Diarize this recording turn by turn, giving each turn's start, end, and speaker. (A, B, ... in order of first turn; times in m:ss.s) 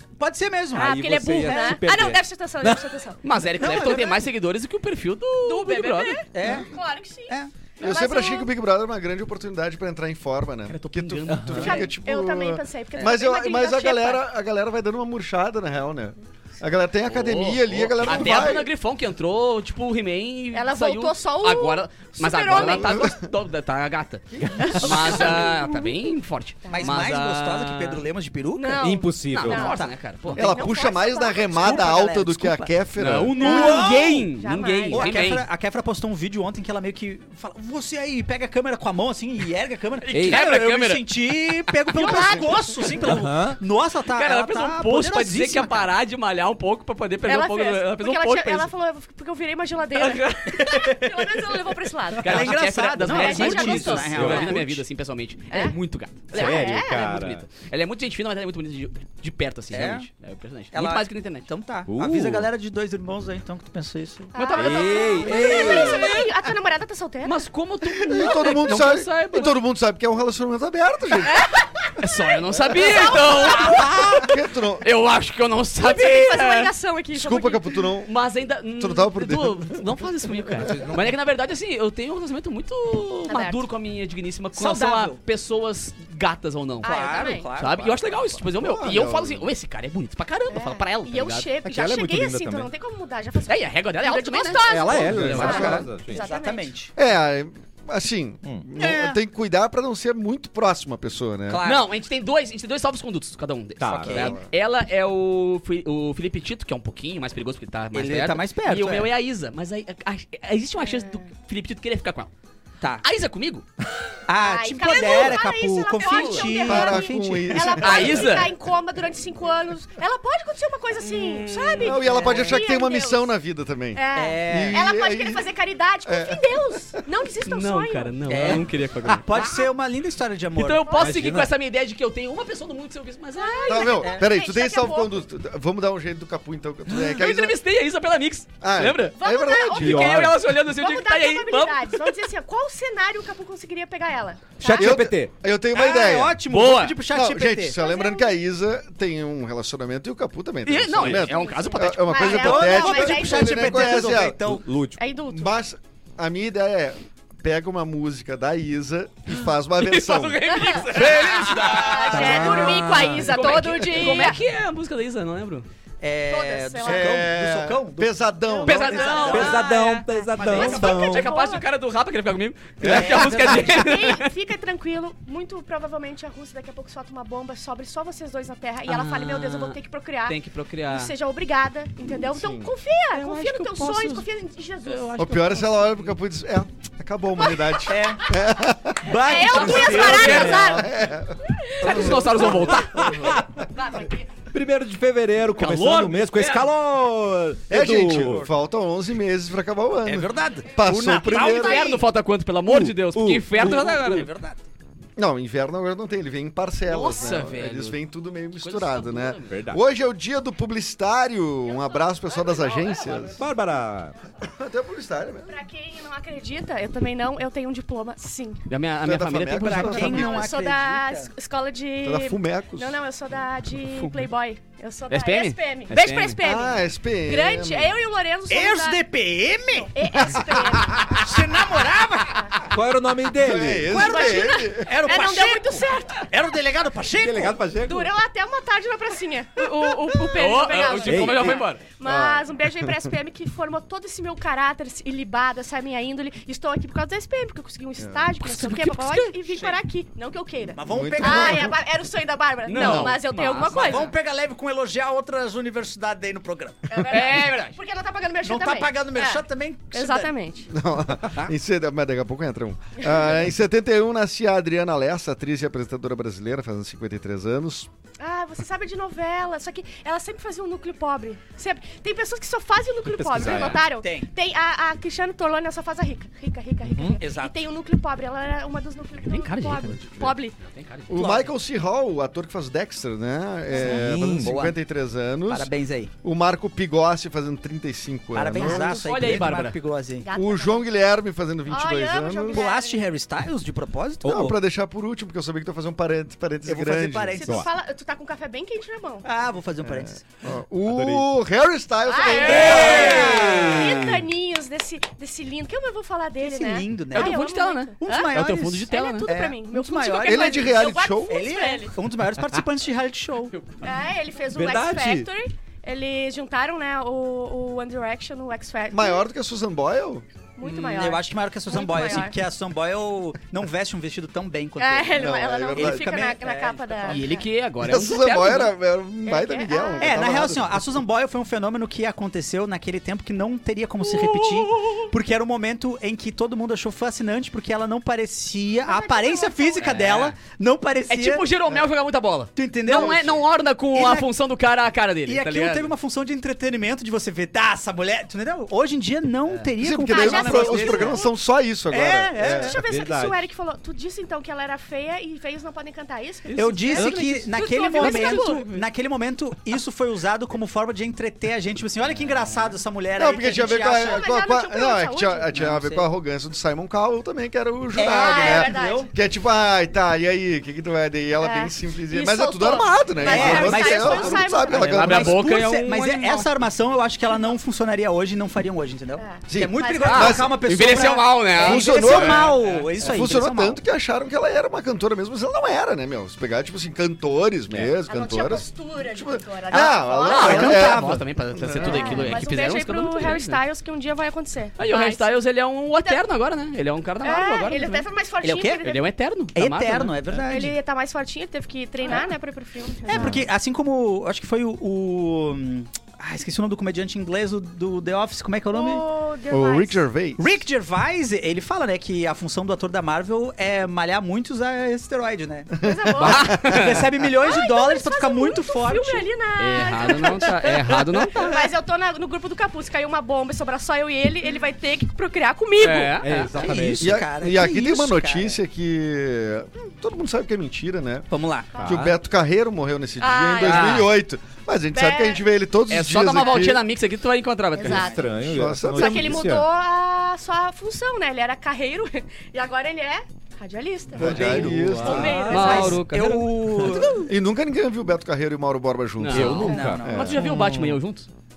0:00.2-0:00.9 A
0:00.7-0:04.1 B
0:00.8-0:02.9 C
0:03.2-0:06.2 D
0:03.5-0:04.2 A
0:05.4-0:08.5 B
0:06.3-0:07.5 A
0:07.8-0:18.7 E
0:10.7-0:11.9 D
0:11.3-0:11.8 C
0:11.6-0:14.2 B
0:17.1-0:28.0 D
0:20.5-0:23.2 B
0:22.5-0:23.1 E
0:24.4-0:25.4 E
0:24.6-0:25.9 B
0:26.7-0:28.9 A
0:28.6-0:29.8 B
0:28.8-0:29.7 C
0:29.3-0:30.6 D
0:29.4-0:30.3 A
0:30.3-0:31.9 B
0:30.3-0:33.3 E
0:31.5-0:34.3 A
0:33.0-0:35.5 D
0:33.4-0:35.3 B
0:34.9-0:45.9 A
0:40.0-0:41.2 D
0:40.1-0:40.4 C
0:41.9-0:42.7 B
0:43.0-0:43.6 C
0:44.1-0:48.7 D
0:47.2-0:54.6 B
0:49.9-0:51.0 D
0:50.5-0:50.8 A
0:52.1-1:01.5 D
0:52.2-0:54.8 A
0:54.1-0:54.5 C
0:55.5-0:55.8 B
0:56.3-0:57.4 C
0:56.3-0:57.1 B
0:59.7-1:00.1 A
1:00.7-1:04.4 A
1:01.9-1:02.5 C
1:04.3-1:07.3 B
1:04.4-1:06.3 D
1:04.5-1:06.2 C
1:07.2-1:09.6 D
1:08.1-1:11.4 E
1:11.3-1:11.6 B
1:12.0-1:16.7 D
1:12.7-1:13.9 B
1:12.9-1:14.8 E
1:15.8-1:17.7 B
1:17.1-1:18.1 E
1:18.0-1:31.5 D
1:18.8-1:19.8 E
1:20.6-1:21.0 C
1:23.3-1:23.6 B
1:24.6-1:25.2 A
1:26.8-1:27.5 B
1:26.8-1:28.3 A
1:28.6-1:29.5 E
1:30.5-1:36.7 B
1:31.6-1:32.7 C
1:33.5-1:35.8 D
1:34.6-1:36.2 C
1:34.9-1:35.9 E
1:35.5-1:36.9 A
1:37.0-1:41.6 E
1:38.8-1:39.2 A
1:41.5-1:41.9 A
1:41.6-1:52.3 D
1:43.8-1:44.4 C
1:43.9-1:44.4 A
1:44.1-1:44.4 E
1:47.9-1:49.1 A
1:50.8-1:51.2 B
1:53.0-1:53.6 D
1:54.3-1:57.8 A
1:54.4-2:03.3 B
1:56.0-1:56.5 D
1:56.6-1:58.4 E
1:57.8-1:58.5 D
2:01.0-2:02.0 D
2:01.8-2:05.4 E
2:02.0-2:02.6 A
2:03.9-2:08.6 B
2:04.1-2:04.8 A
2:06.0-2:06.6 E
2:07.4-2:09.4 D
2:08.3-2:10.9 A
2:10.6-2:14.0 D
2:10.8-2:11.2 B
2:11.0-2:11.5 C
2:13.4-2:15.1 B
2:13.6-2:17.6 E
2:16.9-2:19.2 D
2:18.6-2:20.2 E
2:19.2-2:25.0 B
2:19.7-2:22.2 D
2:19.8-2:20.4 C
2:24.6-2:25.3 C
2:24.7-2:26.4 E
2:25.7-2:27.8 A
2:26.5-2:27.0 D
2:27.1-2:34.4 E
2:27.7-2:28.3 B
2:30.6-2:32.4 D
2:31.2-2:34.0 B
2:32.2-2:34.6 A
2:34.4-2:35.0 C
2:35.0-2:35.5 B
2:35.3-2:42.0 E
2:39.8-2:45.6 D
2:40.5-2:41.1 B
2:40.9-2:42.8 A
2:41.6-2:44.4 B
2:42.1-2:43.3 C
2:46.0-2:48.2 A
2:46.3-2:47.1 B
2:46.8-2:49.2 E
2:48.5-2:51.6 B
2:48.6-2:49.9 D
2:48.7-2:49.8 A
2:49.2-2:51.3 C
2:50.3-2:51.2 A
2:50.5-2:54.3 D
2:52.8-2:53.6 E
2:52.8-2:53.8 A
2:52.9-3:05.1 B
2:58.8-3:01.1 D
3:02.3-3:02.7 E
3:03.1-3:04.3 D
3:04.8-3:06.0 D
3:05.2-3:09.2 E
3:07.4-3:08.0 B
3:07.9-3:08.3 A
3:09.0-3:10.7 A
3:09.2-3:10.9 B
3:09.5-3:10.8 D
3:09.9-3:10.8 C
3:10.0-3:13.1 E
3:11.5-3:12.4 B
3:11.8-3:13.2 D
3:12.8-3:13.7 C
3:13.6-3:14.3 B
3:14.5-3:18.5 C
3:15.6-3:16.7 D
3:17.7-3:21.9 E
3:20.0-3:22.0 A
3:21.3-3:24.3 D
3:22.6-3:24.2 C
3:23.6-3:24.6 A
3:25.2-3:33.4 E
3:26.9-3:28.0 D
3:28.6-3:29.6 D
3:29.5-3:29.8 C
3:31.7-3:32.6 B
3:32.4-3:33.3 D
3:33.3-3:34.1 C
3:34.4-3:35.5 E
3:35.5-3:38.6 B
3:38.7-3:40.3 D
3:39.0-3:40.4 E
3:39.6-3:41.3 A
3:39.9-3:49.0 B
3:42.0-3:43.0 E
3:43.9-3:44.2 D
3:45.1-3:46.4 D
3:46.4-3:48.0 E
3:48.5-3:49.9 A
3:49.9-3:51.6 B
3:50.2-3:50.9 E
3:51.0-3:52.6 A
3:52.2-3:52.6 B
3:52.7-3:54.0 C
3:53.4-3:54.9 E
3:53.9-3:56.3 B
3:53.9-3:57.6 A
3:57.2-3:58.1 C
3:57.8-4:14.1 B
4:00.2-4:01.8 D
4:01.0-4:01.6 C
4:02.0-4:03.1 E
4:08.0-4:08.3 E
4:08.4-4:09.6 D
4:10.7-4:11.7 A
4:10.9-4:11.8 E
4:12.6-4:14.1 D
4:12.7-4:17.0 A
4:16.9-4:20.7 B
4:17.1-4:17.8 D
4:18.4-4:20.3 A
4:20.7-4:27.9 E
4:23.0-4:23.2 B
4:28.2-4:40.6 B
4:33.0-4:33.8 C
4:33.4-4:34.3 A
4:36.8-4:37.2 C
4:37.2-4:37.6 A
4:39.2-4:41.3 D
4:41.1-4:45.7 E
4:41.1-4:41.5 A
4:43.8-4:44.6 C
4:43.8-4:44.8 A
4:45.5-4:46.1 A
4:46.2-4:49.1 E
4:48.3-4:50.3 A
4:48.6-4:48.8 B
4:48.8-4:49.8 D
4:50.2-4:50.8 B
4:50.3-4:52.7 E
4:51.7-4:53.0 B
4:52.5-4:54.5 A
4:54.2-4:57.5 E
4:54.2-4:54.5 C
4:56.6-4:57.7 A
4:57.4-4:59.2 B
4:59.2-5:00.2 A
4:59.8-5:03.8 E
5:00.8-5:01.2 C
5:02.1-5:08.3 B
5:02.2-5:03.5 D
5:02.5-5:04.1 A
5:03.2-5:04.2 C
5:06.4-5:07.4 A
5:07.1-5:09.3 D
5:08.0-5:13.6 A
5:08.9-5:11.9 B
5:10.2-5:11.4 E
5:13.5-5:13.9 D
5:13.8-5:19.2 B
5:14.5-5:15.3 C
5:18.9-5:20.2 E
5:20.6-5:22.3 B
5:20.6-5:27.4 A
5:24.8-5:27.4 B
5:25.1-5:26.3 E
5:27.1-5:28.7 D
5:27.8-5:30.8 E
5:29.2-5:30.1 B
5:30.0-5:41.5 A
5:34.0-5:35.1 D
5:38.8-5:40.0 B
5:39.8-5:40.4 D
5:41.1-5:45.9 D
5:42.6-5:43.4 A
5:43.9-5:44.3 A
5:45.2-5:51.2 A
5:49.8-5:52.8 E
5:50.1-5:51.3 B
5:51.9-5:52.8 A
5:52.5-5:58.6 B
5:52.7-5:53.4 C
5:56.4-5:58.8 D
5:56.6-6:04.3 A
6:03.2-6:15.4 E
6:04.0-6:05.5 B
6:05.5-6:06.0 A
6:07.9-6:09.1 A
6:08.0-6:09.1 B
6:11.4-6:15.2 B
6:13.2-6:23.8 A
6:14.8-6:16.5 D
6:19.2-6:21.0 B
6:19.5-6:20.6 E
6:20.0-6:22.9 D
6:21.6-6:32.3 E
6:28.0-6:30.8 B
6:29.7-6:31.2 A
6:30.2-6:33.6 D
6:31.8-6:35.4 B
6:34.8-6:38.0 D
6:37.2-6:39.0 B
6:38.4-6:38.8 A
6:38.8-6:40.2 D
6:39.5-6:40.8 A
6:40.5-6:43.4 B
6:43.0-6:49.0 A
6:43.1-6:43.4 E
6:48.7-6:50.0 B
6:49.5-6:50.6 E
6:50.4-6:55.8 A
6:55.7-6:56.7 E
6:55.8-6:56.6 B
6:56.2-6:57.0 D
6:56.5-6:59.3 A
6:57.4-7:00.5 B
6:59.6-7:01.6 D
7:00.1-7:01.5 A
7:01.4-7:06.2 B
7:05.8-7:06.7 D
7:06.2-7:07.2 C
7:06.6-7:08.6 A
7:07.0-7:11.2 E
7:11.3-7:11.7 A
7:11.7-7:12.0 B
7:11.8-7:12.1 C
7:11.8-7:16.8 E
7:13.2-7:14.0 B
7:13.6-7:14.1 D
7:14.9-7:15.4 B
7:15.9-7:18.1 D
7:16.4-7:16.7 B
7:17.8-7:26.0 B
7:17.8-7:18.2 A
7:17.9-7:19.7 C
7:18.5-7:19.5 E
7:24.2-7:25.5 E
7:24.2-7:25.9 C
7:24.2-7:27.2 A
7:25.5-7:27.2 D
7:27.2-7:30.4 E
7:29.2-7:31.3 D
7:29.3-7:31.0 C
7:29.4-7:30.3 A